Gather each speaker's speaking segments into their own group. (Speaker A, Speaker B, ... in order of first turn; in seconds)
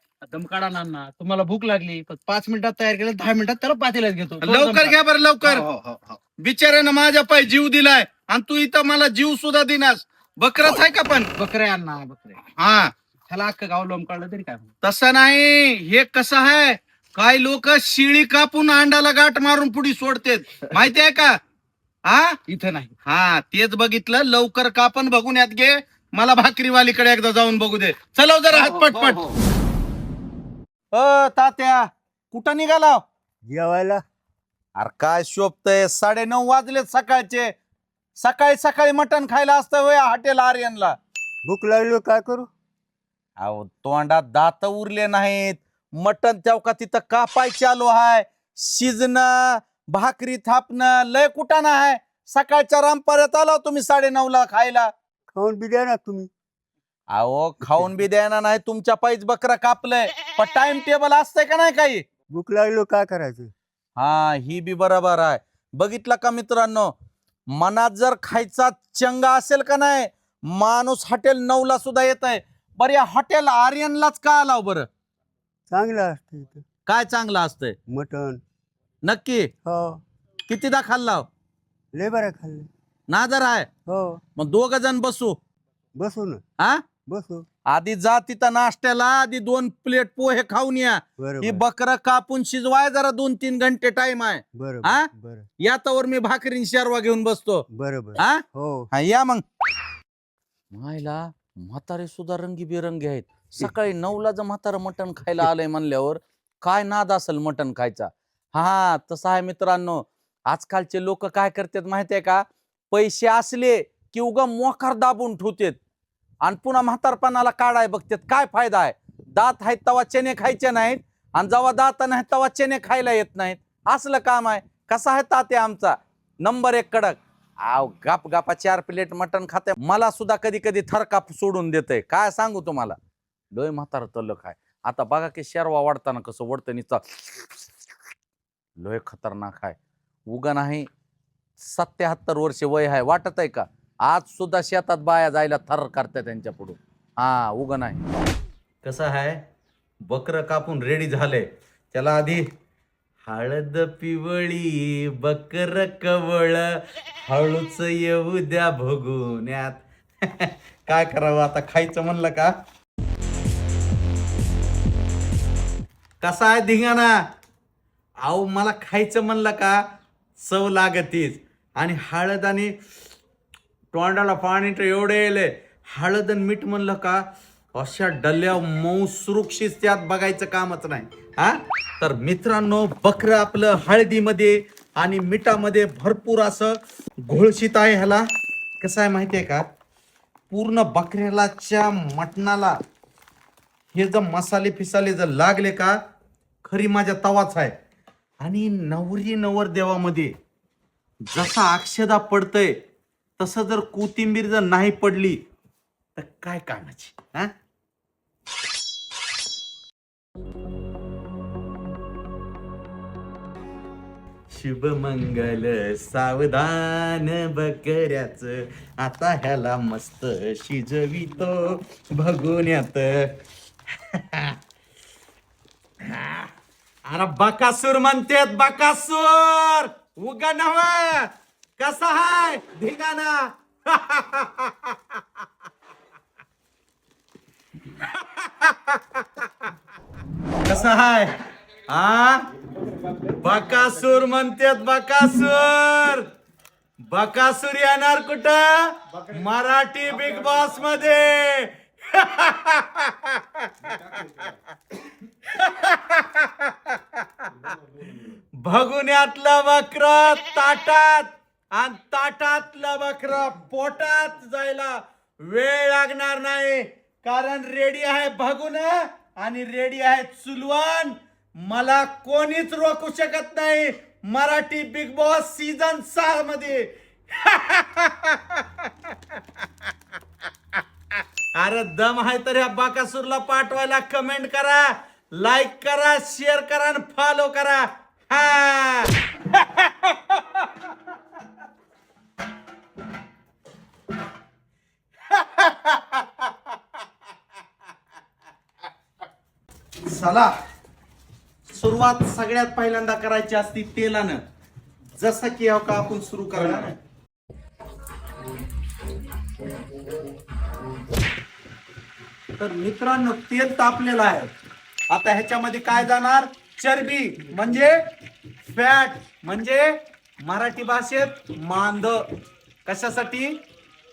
Speaker A: 0.2-6.2, 11.3-12.4, 13.3-14.7, 22.5-22.9, 28.5-29.3
Speaker B: 4.4-5.7, 6.4-11.3, 12.6-12.9, 14.8-21.4, 22.1-22.4, 23.1-29.2, 30.9-33.0, 34.8-37.5, 38.2-40.9, 43.4-54.9, 57.1-62.0, 64.0-66.9, 67.5-74.9, 76.8-77.7, 79.0-79.5, 80.5-81.2, 83.1-83.7, 84.3-85.4, 87.7-95.1, 95.6-97.6, 98.2-99.4, 100.7-115.8, 116.4-133.0, 133.5-137.5, 138.8-139.8, 140.3-140.9, 141.6-148.0, 148.8-149.4, 150.1-152.4, 153.2-162.5, 166.2-167.1, 168.2-169.8, 170.4-172.7, 173.9-177.2, 177.7-188.2, 188.8-189.6, 190.5-192.7, 193.9-196.0, 196.6-197.7, 198.4-200.3, 201.3-202.8, 203.4-205.4, 206.2-207.5, 214.5-223.3, 224.1-224.6, 226.0-226.5, 227.1-235.2, 238.0-239.5, 240.6-241.3, 241.9-242.4, 243.2-246.2, 247.1-254.5, 255.4-257.7, 258.6-279.1, 281.5-290.6, 295.3-296.5, 300.0-300.5, 301.7-304.4, 305.2-306.9, 312.6-314.5, 315.1-318.0, 318.7-322.2, 322.9-323.6
Speaker C: 33.5-34.0, 41.4-42.5, 55.3-56.3, 62.3-63.5, 75.7-76.6, 77.9-78.4, 79.6-80.0, 81.9-82.7, 83.9-84.2, 86.0-86.4, 87.1-87.5, 91.2-91.6, 94.5-95.5, 97.7-98.9